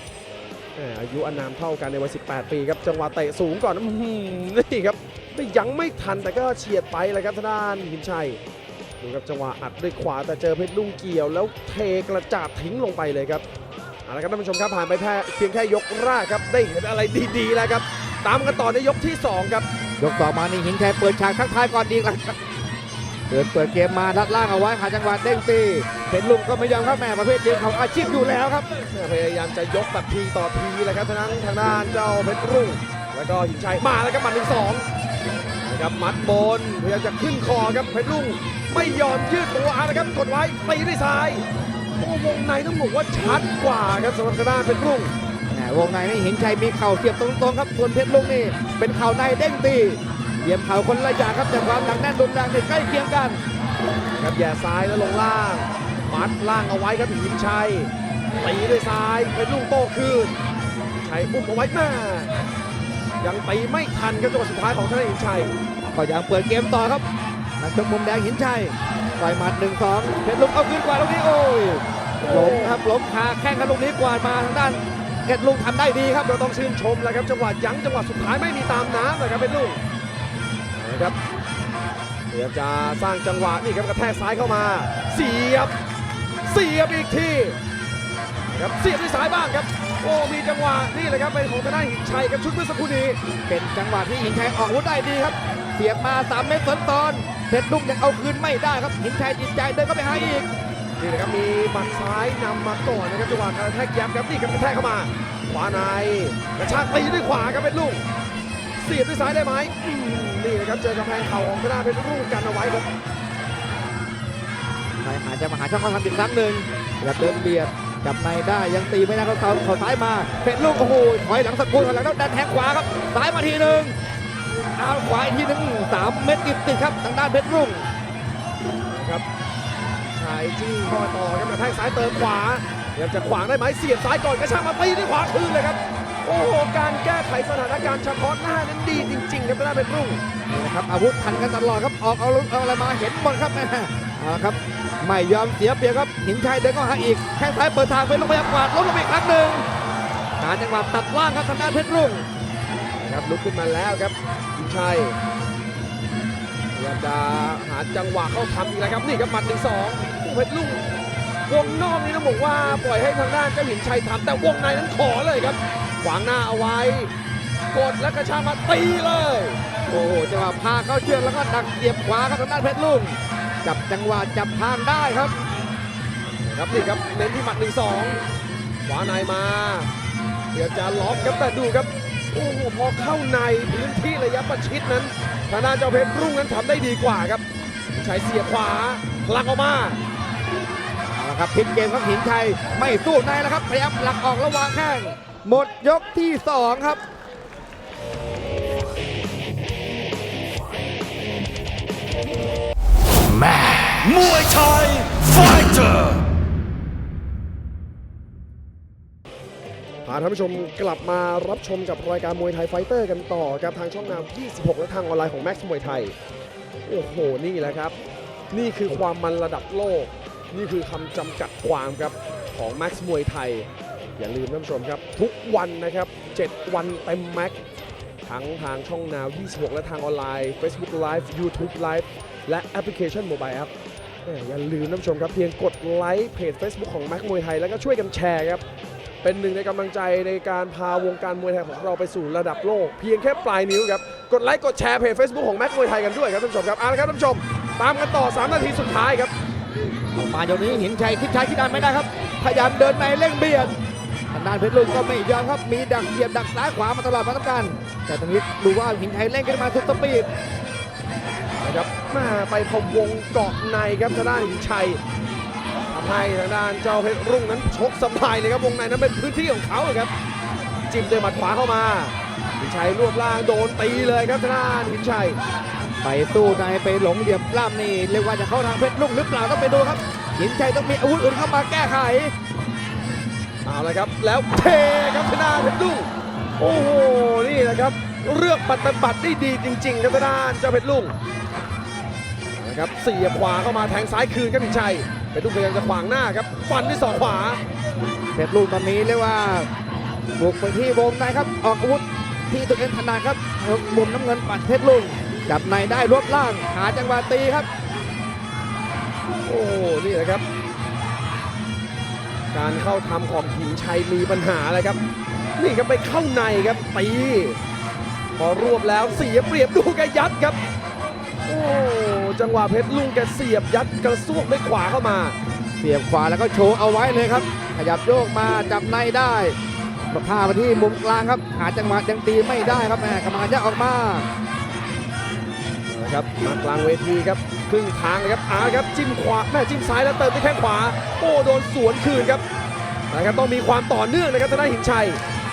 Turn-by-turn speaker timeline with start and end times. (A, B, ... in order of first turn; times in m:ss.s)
0:00.7-0:08.4 A
0:09.0-0:13.4 A
0:14.0-0:19.7 A
0:20.0-0:22.4 B
0:23.3-0:28.6 B
0:28.9-0:34.8 A
0:35.6-0:41.4 A
0:42.0-0:45.1 A
0:45.5-0:53.5 B
0:54.2-1:00.4 A
1:01.0-1:02.3 A
1:03.2-1:05.5 A
1:05.9-1:07.0 B
1:07.6-1:16.3 B
1:12.2-1:12.8 A
1:16.2-1:19.8 A
1:20.7-1:21.2 A
1:22.3-1:25.7 A
1:26.4-1:27.6 A
1:28.5-1:33.2 A
1:33.5-1:40.5 B
1:41.0-1:48.0 A
1:48.8-1:52.9 A
1:55.0-2:04.0 B
2:04.8-2:07.9 B
2:08.9-2:09.2 A
2:10.1-2:20.2 A
2:20.5-2:29.6 B
2:30.4-2:32.3 B
2:33.0-2:35.2 A
2:36.7-2:40.8 A
2:41.5-2:47.1 A
2:47.7-2:49.6 A
2:49.9-2:55.3 B
2:56.4-2:58.2 A
2:58.8-2:59.9 A
3:00.5-3:10.0 A
3:11.1-3:17.0 B
3:23.3-3:26.2 C
3:30.0-3:36.1 A
3:36.8-3:38.0 A
3:38.5-3:47.6 A
3:48.2-3:53.7 A
3:54.2-3:58.6 A
3:59.2-4:09.3 A
4:10.1-4:13.7 B
4:14.3-4:20.3 B
4:21.6-4:25.0 A
4:25.9-4:30.1 A
4:30.9-4:35.4 A
4:36.0-4:42.3 B
4:43.6-4:51.1 A
4:52.6-4:57.6 A
4:58.3-4:59.7 B
5:00.4-5:07.7 B
5:09.4-5:10.4 A
5:12.5-5:15.0 A
5:15.6-5:17.6 A
5:18.4-5:20.6 A
5:21.5-5:25.4 A
5:25.8-5:29.6 B
5:30.1-5:34.3 B
5:35.9-5:42.4 A
5:43.1-5:45.2 A